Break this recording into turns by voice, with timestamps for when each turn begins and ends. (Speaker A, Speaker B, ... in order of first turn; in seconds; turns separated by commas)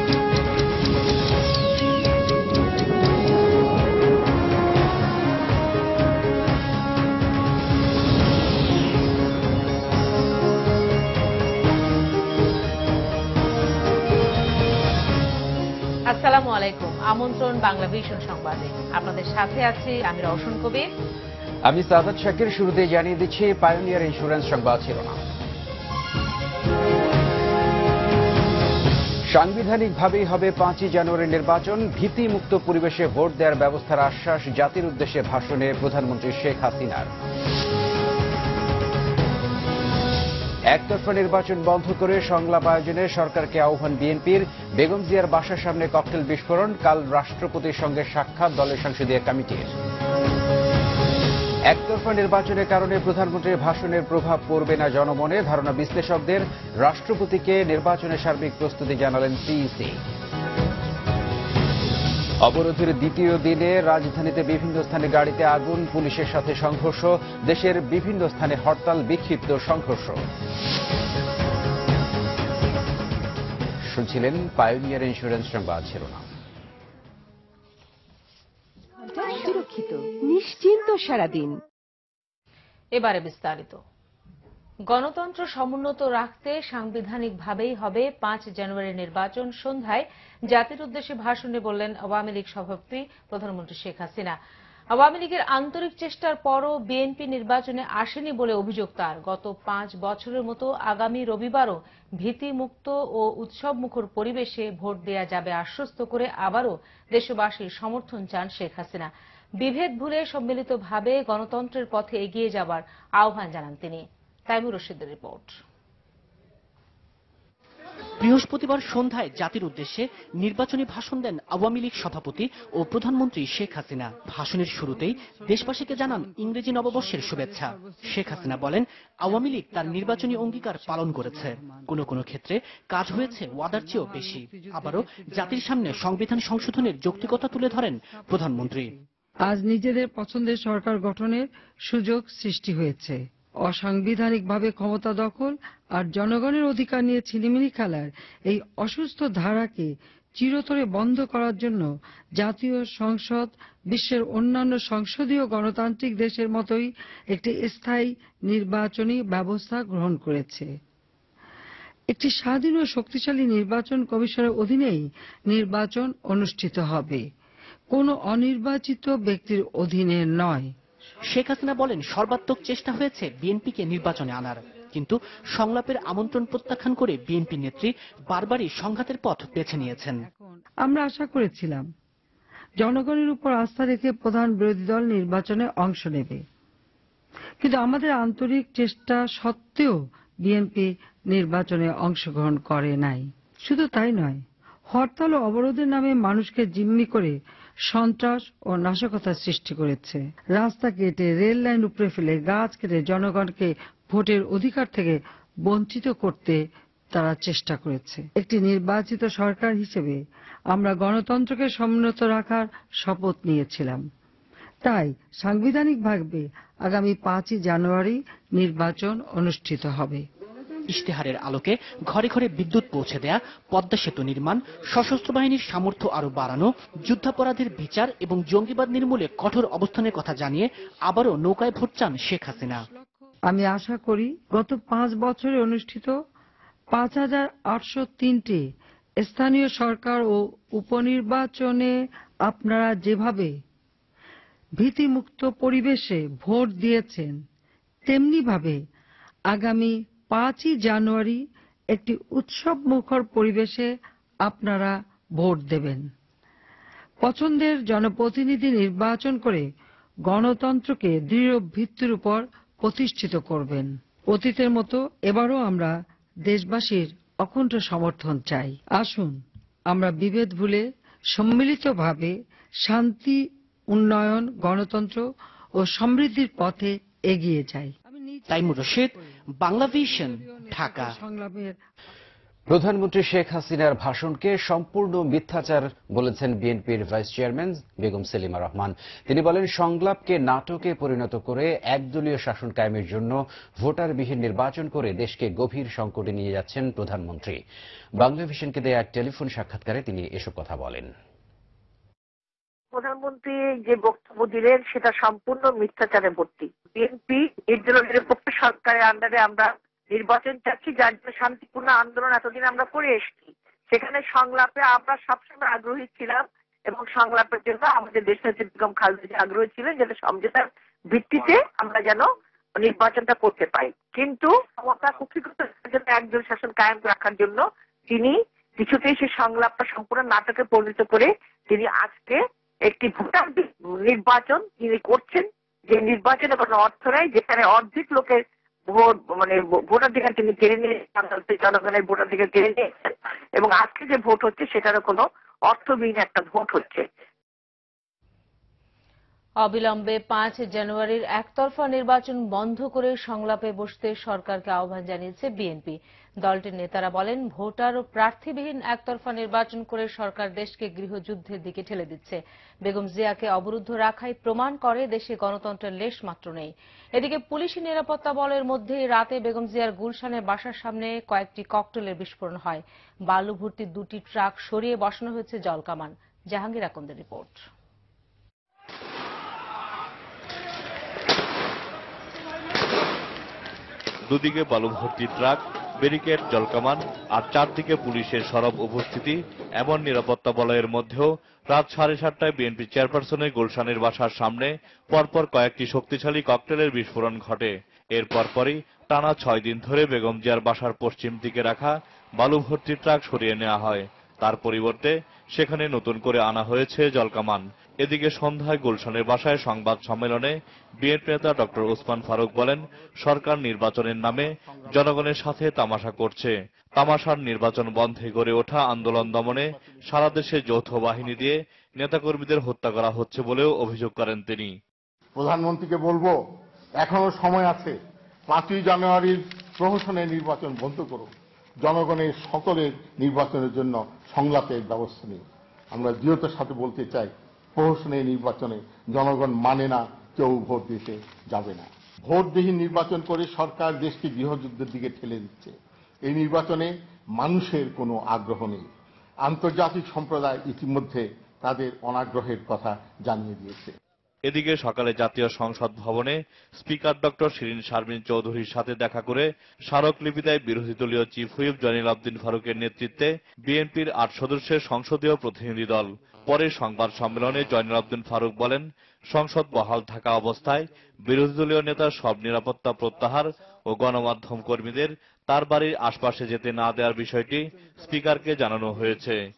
Speaker A: 16.1-20.9, Speaker B: 21.6-25.2, Speaker B: 29.3-37.1, Speaker B: 40.7-49.7, Speaker B: 51.7-60.0, Speaker B: 62.4-70.2, Speaker B: 73.9-76.2, Speaker C: 79.0-81.6, Speaker A: 83.0-83.8, Speaker A: 84.9-94.4, Speaker A: 94.9-115.6, Speaker D: 118.2-138.9, Speaker E: 125.6-126.3, Speaker E: 127.0-128.4, Speaker E: 131.0-131.8, Speaker E: 133.1-135.6, Speaker E: 138.5-138.9, Speaker E: 139.5-151.9, Speaker E: 152.4-160.7, Speaker E: 162.1-167.2, Speaker E: 167.9-170.7, Speaker D: 171.3-180.2, Speaker E: 180.2-181.9, Speaker E: 182.8-186.4, Speaker E: 187.6-197.4, Speaker E: 197.9-206.6, Speaker E: 207.1-210.2, Speaker E: 210.7-214.0, Speaker E: 214.8-220.2, Speaker D: 220.9-232.8, Speaker E: 233.4-236.1, Speaker E: 236.9-238.7, Speaker E: 239.2-241.9, Speaker E: 242.5-243.6, Speaker E: 244.8-247.4, Speaker E: 248.1-248.8, Speaker E: 249.5-251.4, Speaker E: 251.9-253.9, Speaker E: 254.4-256.1, Speaker E: 257.2-259.7, Speaker E: 260.3-265.9, Speaker E: 266.4-275.2, Speaker E: 275.8-278.9, Speaker D: 278.5-281.2, Speaker E: 279.9-281.8, Speaker B: 282.7-297.6, Speaker B: 298.2-301.1, Speaker F: 302.9-347.1, Speaker A: 349.6-377.6, Speaker G: 384.3-424.8, Speaker H: 425.4-426.4, Speaker H: 427.0-428.0, Speaker H: 428.5-431.3, Speaker H: 431.8-448.9, Speaker H: 449.4-453.9, Speaker G: 454.5-479.4